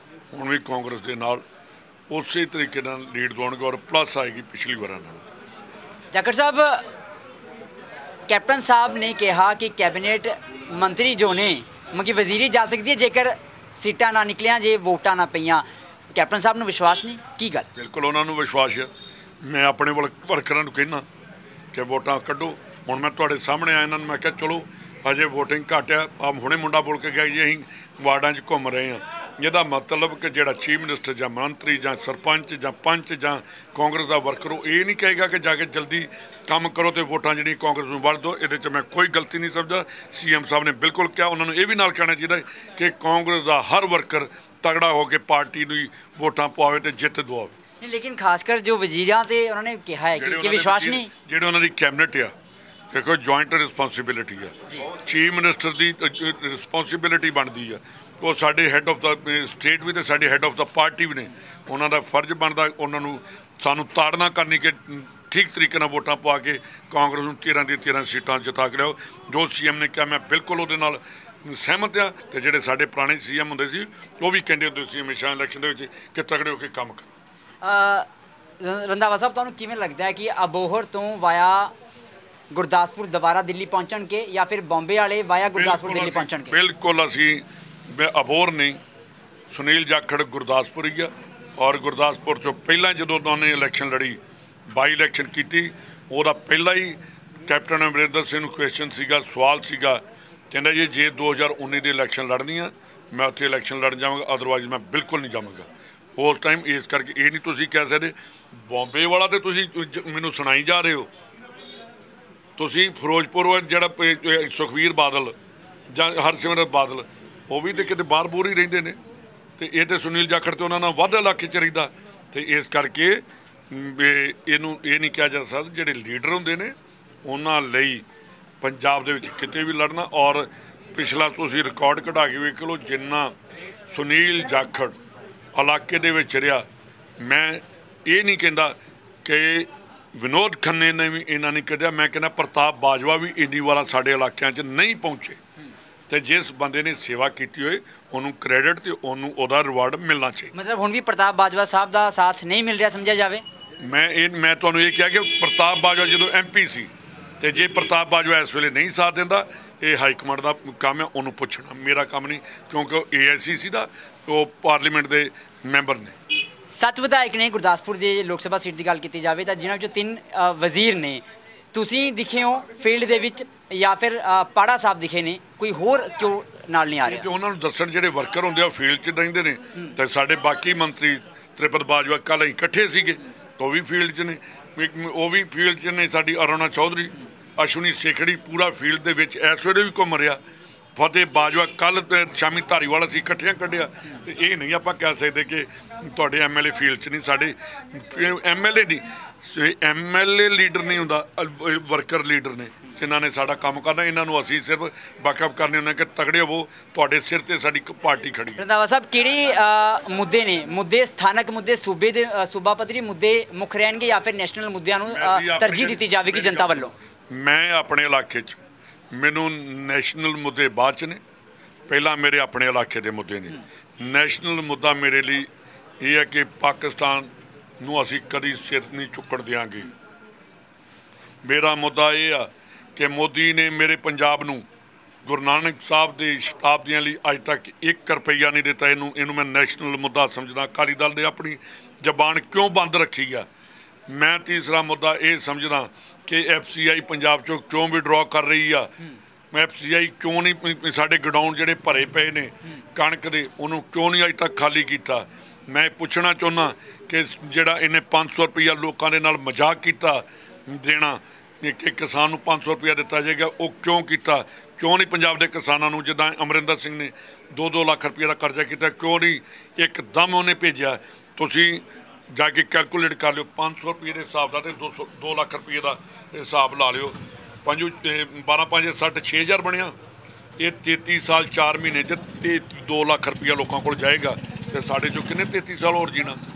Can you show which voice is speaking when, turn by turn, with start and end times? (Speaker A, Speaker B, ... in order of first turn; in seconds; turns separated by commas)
Speaker A: 0.3-1.4, Speaker A: 2.1-5.2, Speaker B: 6.1-6.8, Speaker B: 8.3-15.6, Speaker B: 16.1-17.7, Speaker A: 17.8-18.9, Speaker A: 19.4-21.1, Speaker A: 21.7-47.5, Speaker B: 47.8-51.1, Speaker A: 50.2-52.3, Speaker A: 52.9-77.1, Speaker B: 77.6-78.1, Speaker B: 78.6-81.7, Speaker B: 82.5-86.6, Speaker A: 85.5-88.8, Speaker A: 89.5-94.2, Speaker A: 94.7-111.1, Speaker A: 112.6-115.4, Speaker A: 115.9-119.0, Speaker A: 119.6-128.1, Speaker A: 128.6-133.3, Speaker A: 133.9-135.0, Speaker A: 135.6-136.7, Speaker A: 137.2-145.4, Speaker A: 146.1-150.5, Speaker B: 150.5-153.4, Speaker A: 153.8-166.2, Speaker B: 166.7-171.2, Speaker B: 171.7-177.3, Speaker A: 177.1-190.4, Speaker A: 191.0-208.6, Speaker B: 208.6-216.9, Speaker A: 215.1-218.6, Speaker A: 219.1-221.2, Speaker A: 221.9-225.5, Speaker A: 226.0-227.3, Speaker A: 227.8-229.9, Speaker A: 231.4-234.7, Speaker A: 235.2-243.5, Speaker A: 244.1-248.9, Speaker A: 249.5-279.9, Speaker A: 280.6-286.4